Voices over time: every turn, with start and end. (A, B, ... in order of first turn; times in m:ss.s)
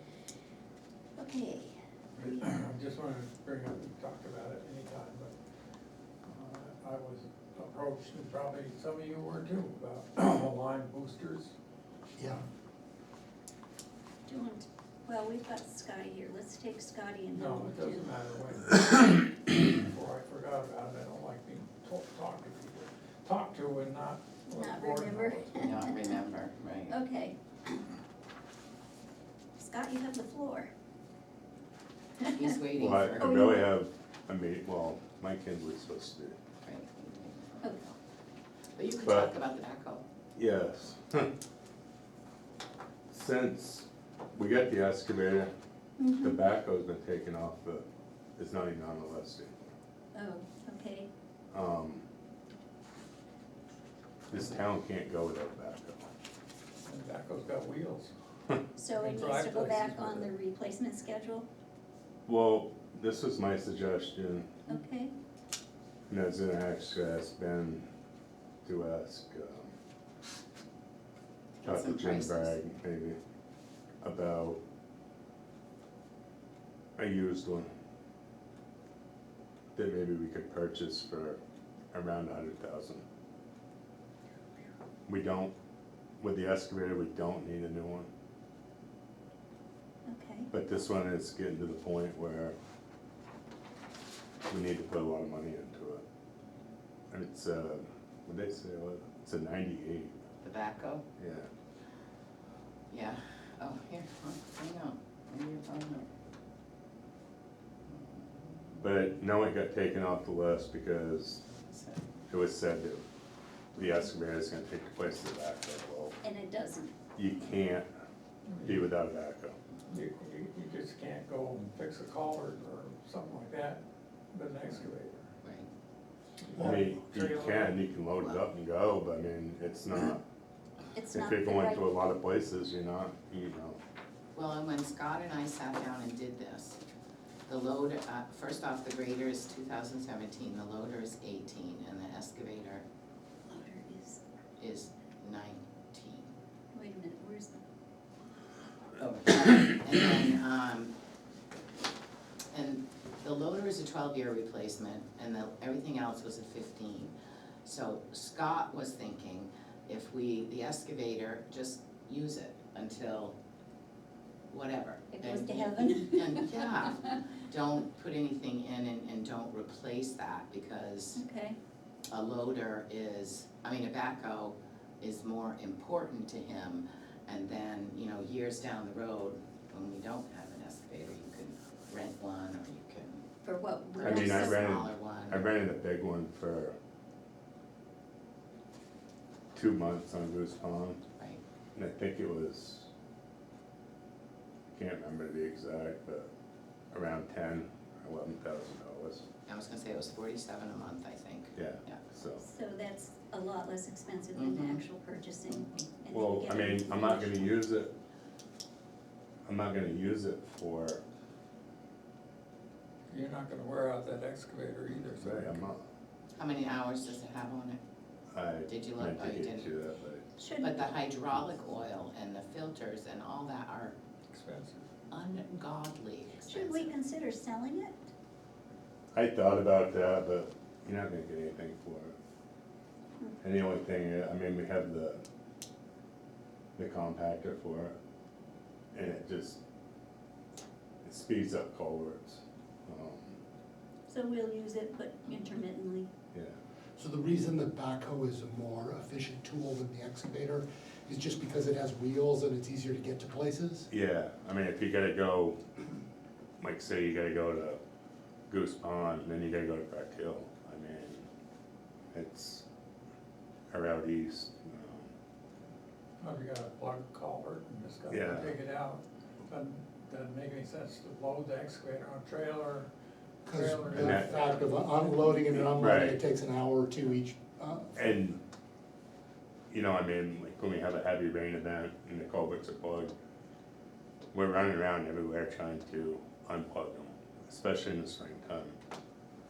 0:01.2-0:02.5 A
0:02.2-0:05.3 B
0:06.2-0:11.5 B
0:14.3-0:18.1 A
0:17.3-0:25.7 B
0:24.5-0:26.2 A
0:25.6-0:27.0 C
0:26.9-0:27.4 A
0:29.6-0:30.7 A
0:32.3-0:33.5 C
0:32.8-0:36.4 D
0:33.2-0:33.7 A
0:36.6-0:38.0 C
0:38.7-0:40.0 C
0:39.0-0:39.3 D
0:40.3-0:41.3 D
0:43.1-0:45.5 D
0:46.0-0:46.4 A
0:46.2-0:47.8 D
0:48.4-0:49.7 D
0:50.1-0:51.1 A
0:51.5-0:52.0 D
0:54.3-0:56.1 D
0:56.8-0:58.1 B
0:58.8-1:01.4 A
0:58.9-1:00.3 B
1:02.2-1:04.5 D
1:04.7-1:05.1 A
1:06.1-1:07.9 D
1:08.6-1:09.7 D
1:11.6-1:12.6 C
1:11.6-1:13.2 D
1:14.0-1:14.6 D
1:17.0-1:17.7 D
1:19.7-1:21.4 D
1:21.9-1:23.0 D
1:25.1-1:25.5 D
1:26.2-1:28.1 D
1:30.0-1:30.5 A
1:30.5-1:32.6 D
1:34.5-1:36.0 D
1:37.1-1:40.2 D
1:40.4-1:41.0 C
1:41.2-1:41.5 D
1:42.9-1:46.1 C
1:47.9-1:48.9 C
1:48.8-1:51.4 D
1:51.6-1:52.2 C
1:52.3-1:53.0 D
1:53.7-1:56.2 D
1:56.2-1:56.9 A
1:57.1-1:57.9 D
1:58.5-1:58.9 B
1:58.6-1:59.6 D
1:59.9-2:03.8 B
2:04.3-2:05.3 B
2:05.4-2:05.7 C
2:06.4-2:07.8 B
2:06.6-2:10.2 D
2:10.9-2:11.9 A
2:11.1-2:13.8 D
2:14.3-2:16.8 C
2:17.5-2:22.8 C
2:23.5-2:24.2 A
2:24.6-2:26.3 C
2:26.7-2:27.6 A
2:29.0-2:30.9 C
2:32.5-2:37.1 C
2:37.6-2:43.3 C
2:44.5-2:51.2 C
2:45.1-2:47.1 A
2:51.1-2:51.6 A
2:52.1-3:03.2 C
3:03.4-3:04.7 A
3:03.9-3:05.5 C
3:04.0-3:06.8 D
3:09.5-3:11.0 D
3:11.7-3:12.9 D
3:14.7-3:16.3 D
3:16.9-3:19.2 D
3:19.5-3:22.0 C
3:21.5-3:22.4 D
3:22.4-3:27.6 A
3:24.3-3:24.8 C
3:26.1-3:27.9 D
3:29.4-3:31.0 D
3:33.1-3:35.7 B
3:34.9-3:35.9 D
3:36.4-3:37.8 C
3:38.3-3:40.3 D
3:38.7-3:39.7 C
3:40.4-3:41.0 A
3:40.6-3:44.0 C
3:44.3-3:44.8 B
3:45.1-3:46.9 C
3:46.5-3:48.0 A
3:49.1-3:52.1 D
3:53.4-3:55.2 D
3:56.8-3:57.9 D
3:58.9-3:59.6 D
4:01.0-4:03.4 D
4:04.1-4:06.1 A
4:06.3-4:06.6 D
4:07.0-4:13.9 E
4:13.9-4:15.6 D
4:16.6-4:17.8 D
4:18.5-4:21.3 D
4:22.1-4:22.6 D
4:23.7-4:25.1 D
4:26.2-4:32.9 B
4:28.1-4:28.6 D
4:33.4-4:38.0 E
4:33.5-4:35.3 B
4:33.9-4:34.5 D
4:35.5-4:36.2 D
4:37.9-4:38.4 D
4:39.7-4:43.1 D
4:44.3-4:48.8 D